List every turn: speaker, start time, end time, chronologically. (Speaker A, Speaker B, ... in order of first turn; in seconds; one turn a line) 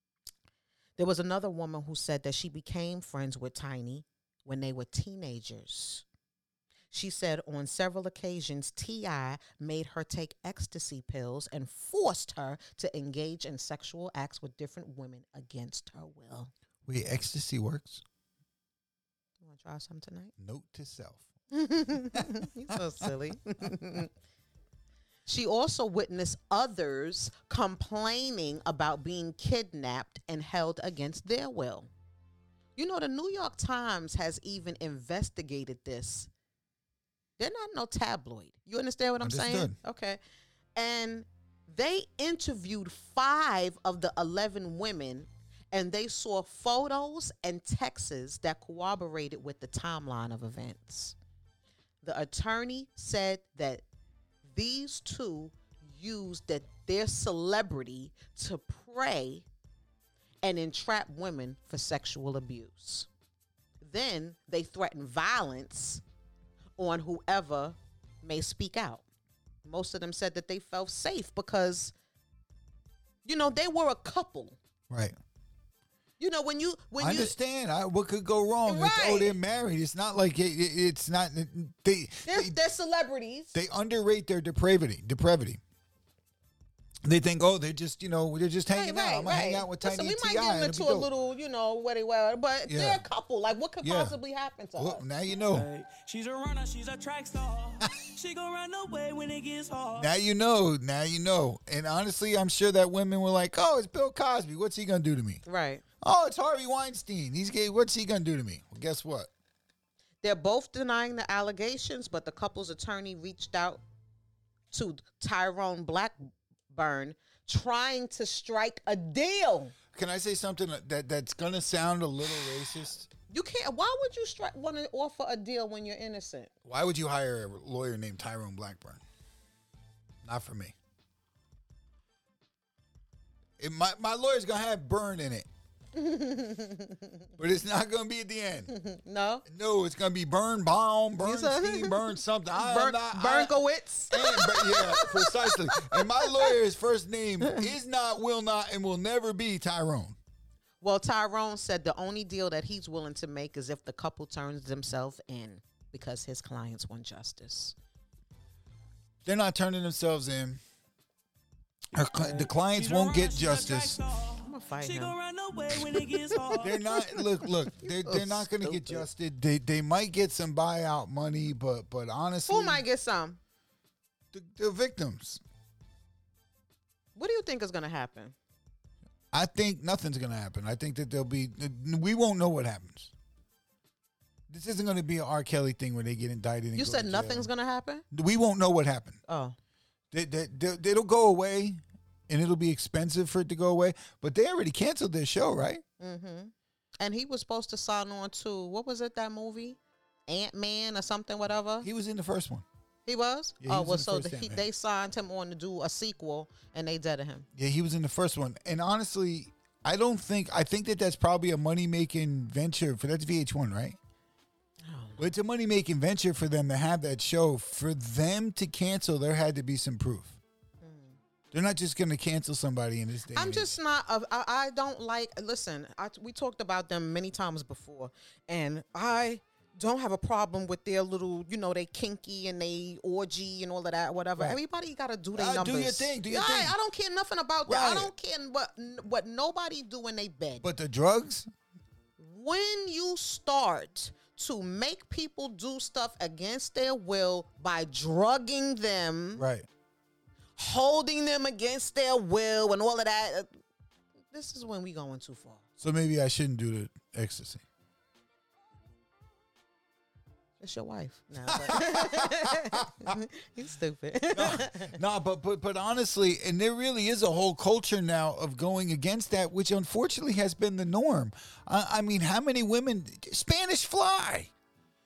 Speaker A: 1.0-6.0
Speaker A: 6.9-16.5
Speaker B: 16.9-18.0
Speaker A: 19.4-20.3
Speaker B: 20.4-21.3
Speaker A: 21.5-24.1
Speaker B: 22.1-23.1
Speaker A: 25.2-31.9
Speaker A: 32.8-36.3
Speaker A: 37.4-40.2
Speaker B: 39.2-39.8
Speaker A: 40.8-51.1
Speaker A: 52.0-53.8
Speaker A: 54.5-59.5
Speaker A: 60.4-63.1
Speaker A: 63.8-66.0
Speaker A: 66.8-69.0
Speaker A: 69.6-71.9
Speaker A: 73.2-74.6
Speaker B: 74.9-75.1
Speaker A: 76.2-77.3
Speaker B: 77.0-82.5
Speaker A: 78.7-79.4
Speaker A: 82.2-83.5
Speaker B: 83.5-85.6
Speaker B: 87.0-91.1
Speaker A: 88.7-95.0
Speaker B: 92.7-93.0
Speaker B: 93.8-94.2
Speaker B: 94.8-95.7
Speaker C: 95.5-100.1
Speaker B: 100.0-105.4
Speaker A: 105.4-105.8
Speaker B: 106.0-109.3
Speaker A: 110.2-113.8
Speaker A: 114.7-119.8
Speaker B: 119.9-123.1
Speaker A: 123.3-126.5
Speaker B: 126.6-129.0
Speaker B: 130.2-130.7
Speaker B: 133.6-135.5
Speaker A: 135.9-137.2
Speaker B: 137.4-138.7
Speaker A: 138.7-139.4
Speaker B: 139.4-143.6
Speaker A: 141.2-146.5
Speaker B: 144.1-150.2
Speaker A: 147.4-147.7
Speaker A: 150.8-157.8
Speaker B: 159.2-160.6
Speaker B: 161.9-164.0
Speaker C: 162.1-166.8
Speaker A: 164.4-165.2
Speaker A: 165.9-169.1
Speaker B: 166.6-172.8
Speaker A: 172.4-173.4
Speaker B: 174.3-175.4
Speaker A: 177.2-178.3
Speaker B: 179.3-183.1
Speaker B: 184.5-187.5
Speaker A: 186.7-188.0
Speaker B: 188.1-189.2
Speaker A: 189.3-189.6
Speaker B: 190.1-195.8
Speaker A: 196.0-201.9
Speaker B: 201.8-202.6
Speaker A: 203.1-207.5
Speaker B: 203.6-204.6
Speaker B: 207.5-214.0
Speaker A: 214.8-215.3
Speaker B: 215.2-220.4
Speaker A: 220.8-221.2
Speaker B: 221.5-223.8
Speaker A: 223.3-240.7
Speaker B: 235.3-236.8
Speaker B: 237.7-238.1
Speaker B: 240.6-241.5
Speaker A: 242.2-249.4
Speaker B: 249.4-249.7
Speaker A: 250.6-253.5
Speaker A: 254.3-255.6
Speaker B: 255.8-257.6
Speaker A: 260.6-265.0
Speaker B: 261.5-263.2
Speaker B: 264.3-274.5